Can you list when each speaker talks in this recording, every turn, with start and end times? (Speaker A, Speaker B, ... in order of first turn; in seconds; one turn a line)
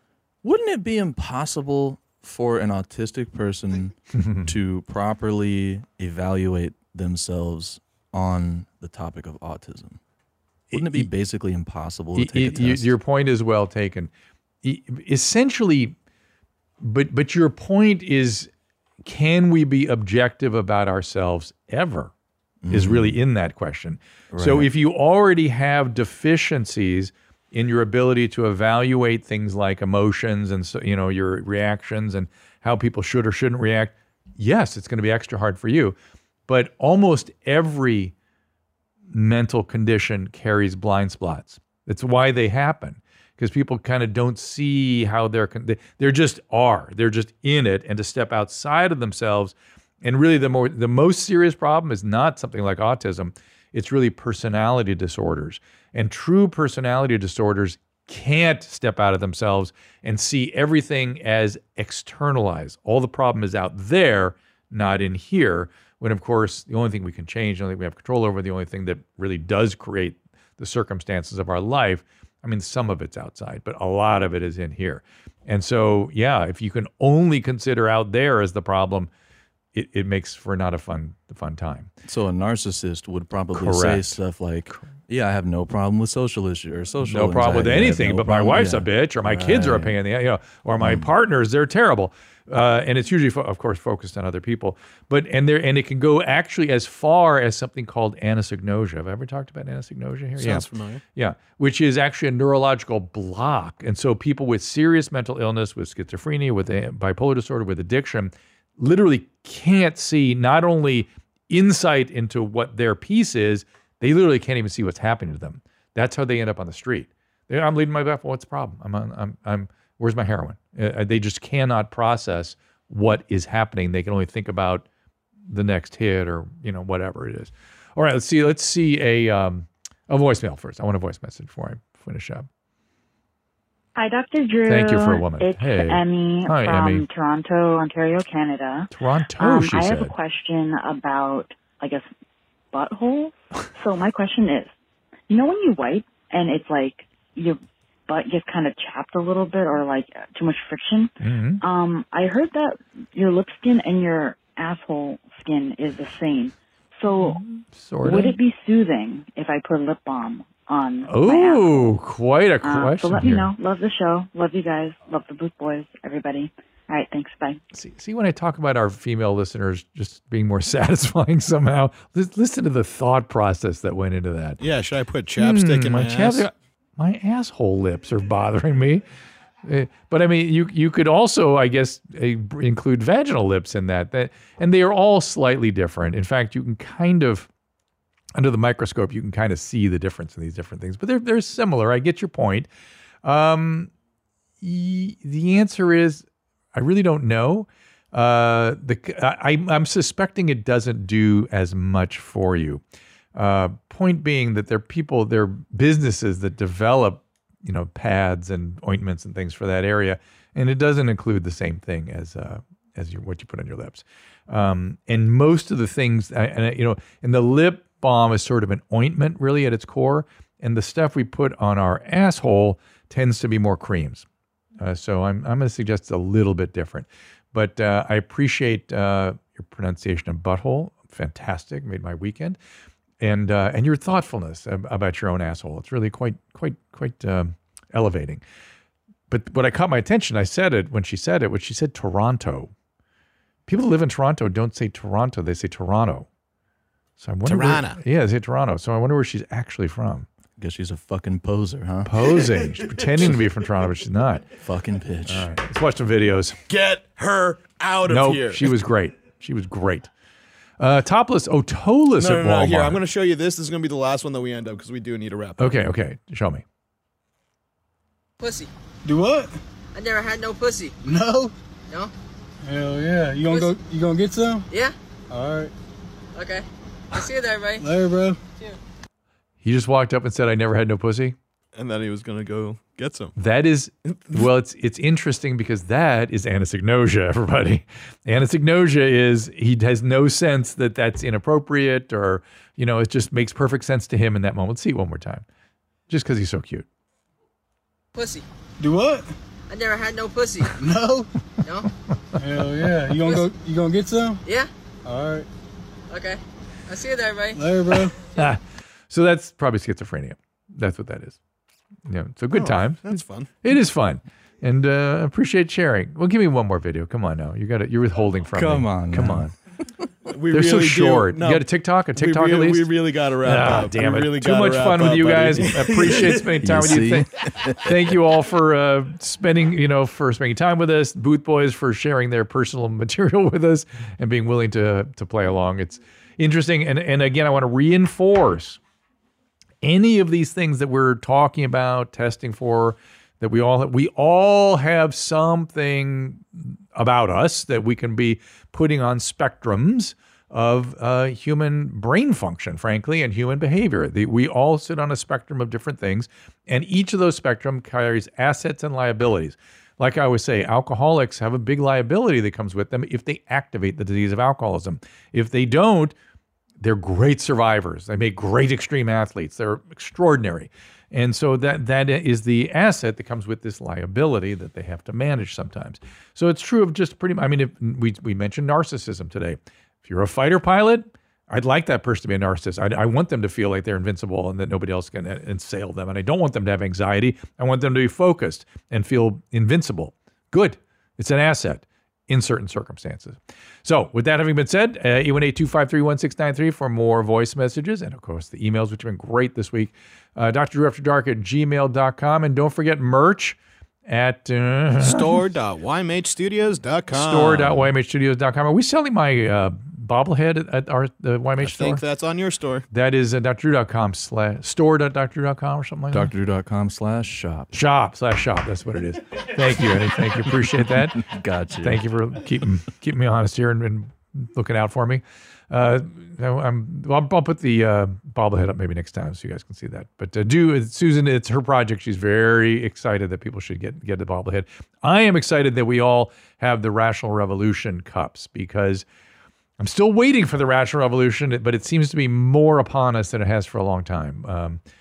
Speaker A: 0.4-10.0
Speaker B: 4.1-4.5
Speaker B: 10.7-11.1
Speaker A: 10.7-12.9
Speaker B: 12.2-14.1
Speaker B: 14.6-15.9
Speaker B: 16.8-18.5
Speaker B: 19.0-22.1
Speaker A: 22.6-23.2
Speaker B: 22.7-36.0
Speaker A: 24.3-24.7
Speaker B: 36.5-38.1
Speaker B: 39.1-79.1
Speaker B: 79.7-81.9
Speaker A: 82.0-89.9
Speaker B: 83.5-84.2
Speaker B: 87.0-124.8
Speaker A: 90.8-91.1
Speaker C: 100.4-101.0
Speaker B: 125.5-132.5
Speaker D: 133.9-142.1
Speaker B: 134.7-137.1
Speaker B: 138.9-140.1
Speaker D: 142.7-144.7
Speaker D: 145.3-157.4
Speaker B: 151.2-151.6
Speaker B: 157.2-158.4
Speaker D: 158.0-162.0
Speaker B: 161.1-163.5
Speaker D: 162.6-167.6
Speaker B: 167.7-174.6
Speaker C: 174.6-176.5
Speaker B: 175.4-179.0
Speaker B: 179.6-187.5
Speaker B: 188.3-192.7
Speaker B: 193.2-193.9
Speaker B: 194.6-202.8
Speaker B: 203.3-224.2
Speaker B: 224.8-232.6
Speaker B: 233.2-238.4
Speaker B: 239.3-242.7
Speaker B: 243.7-246.3
Speaker B: 247.2-250.2
Speaker C: 247.4-248.0
Speaker A: 250.6-252.1
Speaker B: 252.0-254.5
Speaker A: 254.6-255.5
Speaker B: 255.3-256.6
Speaker C: 256.7-258.8
Speaker B: 258.1-260.1
Speaker B: 260.8-263.0
Speaker C: 262.2-265.8
Speaker B: 265.6-266.6
Speaker E: 268.4-268.7
Speaker F: 269.0-269.6
Speaker E: 269.9-270.9
Speaker F: 271.0-271.5
Speaker F: 272.6-274.7
Speaker E: 273.4-273.7
Speaker F: 275.3-275.7
Speaker E: 276.3-277.9
Speaker F: 277.8-278.4
Speaker B: 279.6-281.4
Speaker C: 281.7-283.3
Speaker B: 283.4-295.4
Speaker C: 284.1-284.5
Speaker B: 296.1-296.9
Speaker E: 298.1-298.4
Speaker F: 298.8-299.3
Speaker E: 299.7-300.7
Speaker F: 300.8-301.3
Speaker E: 301.6-301.9
Speaker F: 302.4-304.4
Speaker E: 303.1-303.4
Speaker E: 304.4-304.7
Speaker F: 305.0-305.5
Speaker E: 306.1-307.7
Speaker F: 307.5-308.1
Speaker B: 308.3-311.4
Speaker B: 312.1-319.5
Speaker C: 312.5-313.5
Speaker A: 318.5-319.5
Speaker C: 320.3-326.5
Speaker B: 320.5-338.8
Speaker A: 326.6-328.0
Speaker B: 339.8-366.1
Speaker B: 366.8-405.4
Speaker C: 405.0-407.9
Speaker B: 407.1-412.0
Speaker C: 411.6-412.9
Speaker B: 412.9-416.3
Speaker A: 416.1-417.7
Speaker B: 417.7-421.3
Speaker A: 421.2-422.0
Speaker B: 421.8-439.1
Speaker B: 439.8-444.8